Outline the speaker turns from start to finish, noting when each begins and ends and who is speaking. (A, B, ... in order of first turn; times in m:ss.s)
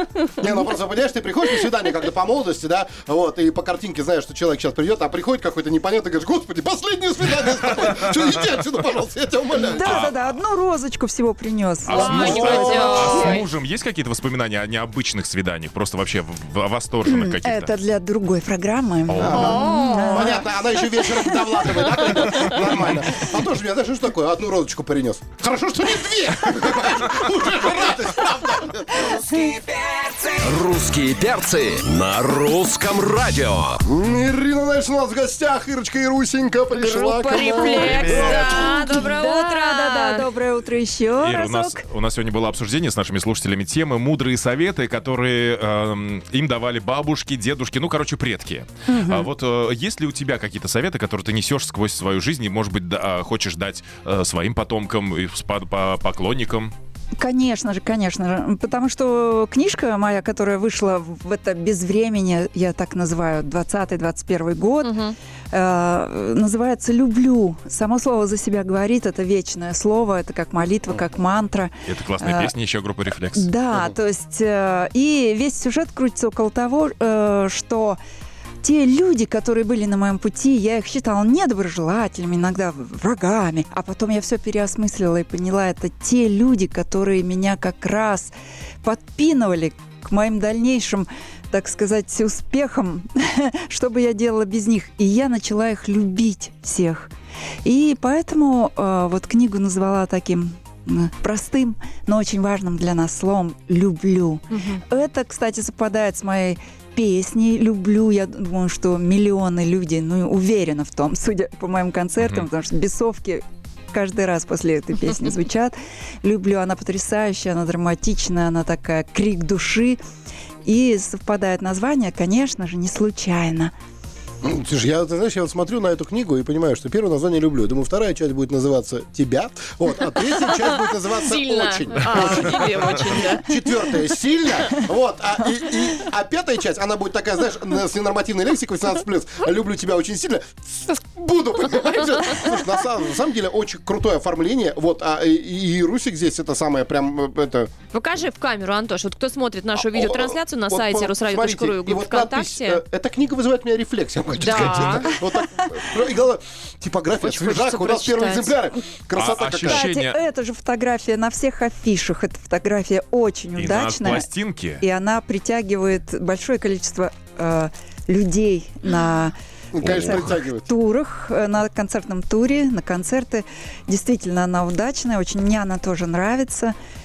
0:00.4-0:10.1 A
0:09.5-0:13.4 B
0:09.8-0:10.4 C
0:11.8-0:17.7 C
0:11.9-0:13.3 A
0:12.0-0:13.5 D
0:17.0-0:22.6 B
0:19.1-0:19.5 C
0:19.2-0:29.4 A
0:19.3-0:20.4 D
0:29.5-0:29.9 D
0:30.4-0:33.8 E
0:33.9-0:38.7 A
0:36.7-0:40.3 D
0:37.6-0:38.7 C
0:38.1-0:41.8 B
0:41.2-0:56.7 C
0:48.9-0:49.3 B
0:57.2-1:05.0 B
1:04.8-1:05.2 D
1:05.5-1:12.5 B
1:11.8-1:13.5 C
1:13.3-1:18.0 B
1:18.6-1:37.1 B
1:37.6-2:00.0 B
1:44.5-1:44.8 D
1:52.2-1:52.4 C
2:00.6-2:03.7 B
2:04.4-2:27.7 A
2:10.6-2:13.5 D
2:27.9-2:32.8 D
2:29.8-2:39.9 A
2:34.4-2:35.2 D
2:37.2-2:38.6 D
2:39.1-2:40.2 C
2:39.6-2:44.3 B
2:43.6-2:44.8 C
2:44.8-2:56.8 B
2:49.7-2:50.7 A
2:49.8-2:50.4 C